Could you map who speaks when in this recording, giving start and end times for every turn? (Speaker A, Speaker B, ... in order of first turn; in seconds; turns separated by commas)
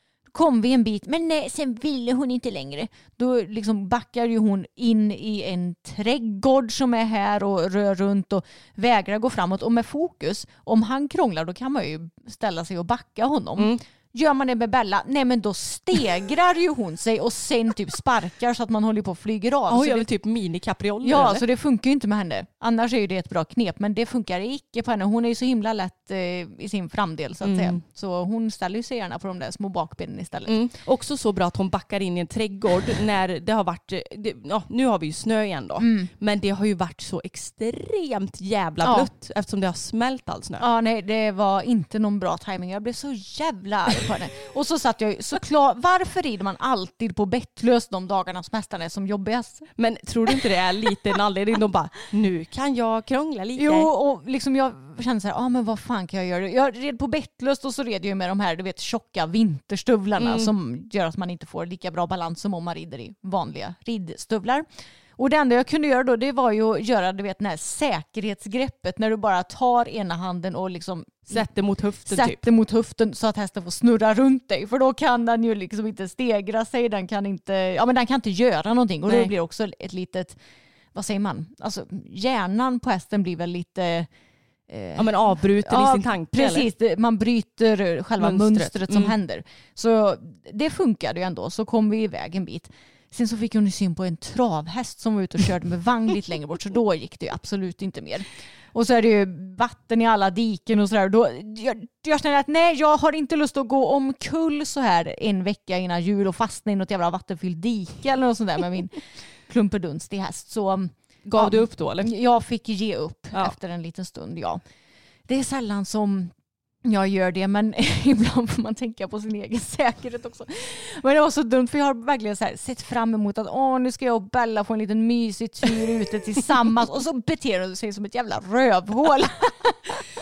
Speaker A: 0.3-20.1, Speaker B: 19.7-21.4, Speaker A: 21.0-30.6, Speaker B: 27.4-27.8, Speaker B: 30.4-40.6, Speaker A: 35.8-36.1, Speaker A: 38.8-39.1, Speaker A: 40.6-49.7, Speaker B: 49.8-53.9, Speaker A: 53.6-64.6, Speaker B: 60.2-60.5, Speaker A: 65.2-71.5, Speaker B: 71.3-72.4, Speaker A: 72.1-80.4, Speaker A: 80.9-84.1, Speaker A: 84.7-114.6, Speaker B: 85.0-86.7, Speaker B: 88.2-89.1, Speaker B: 111.2-112.1, Speaker A: 115.3-116.3, Speaker A: 116.8-130.0